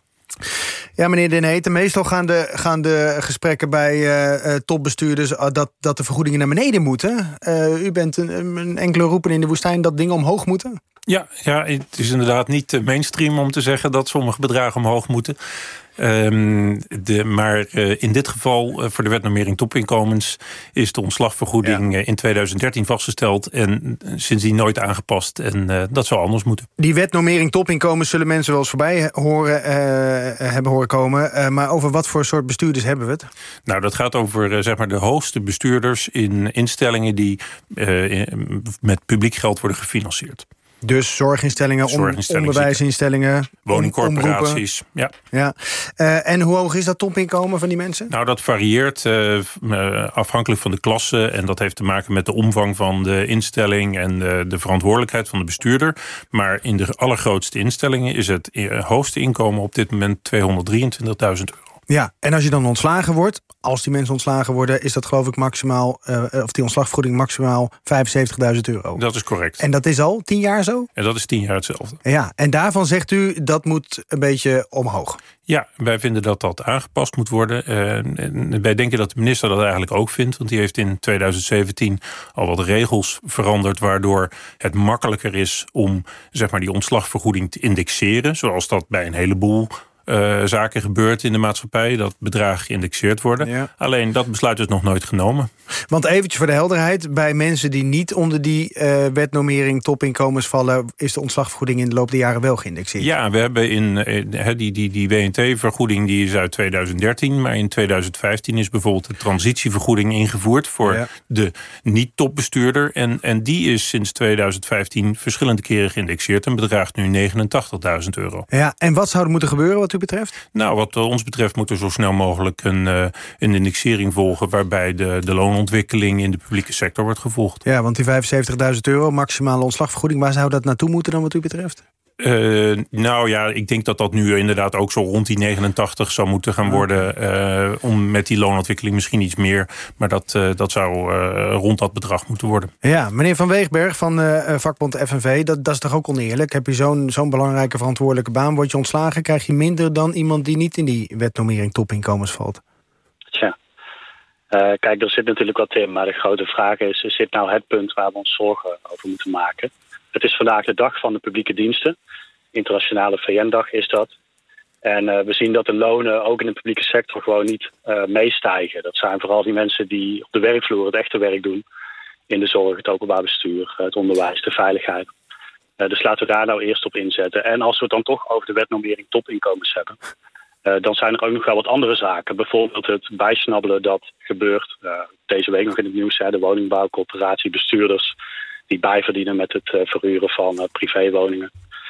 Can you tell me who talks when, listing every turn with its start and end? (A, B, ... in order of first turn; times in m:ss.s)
0:01.0-0:10.8 A
0:11.1-0:15.4 B
0:16.0-0:26.7 B
0:26.8-0:33.3 A
0:33.7-0:40.4 B
0:40.8-0:44.6 A
0:41.8-0:42.8 B
0:43.6-0:45.1 B
0:45.3-0:48.1 A
0:48.1-1:01.6 B
1:01.9-1:09.0 A
1:09.0-1:09.6 B
1:09.6-1:10.9 A
1:11.0-1:12.0 B
1:12.0-1:15.2 A
1:15.5-1:35.5 B
1:33.4-1:33.7 A
1:35.9-1:43.1 A
1:43.0-1:58.5 B
1:58.5-2:00.3 A
2:00.5-2:07.6 B
2:07.7-2:11.8 A
2:12.2-2:22.7 B
2:22.8-2:32.6 A
2:34.5-2:42.0 C
2:42.5-2:44.1 C
2:44.8-2:51.6 C
2:52.3-2:55.1 C
2:55.8-3:00.0 C
3:00.7-3:08.2 C
3:08.7-3:11.5 C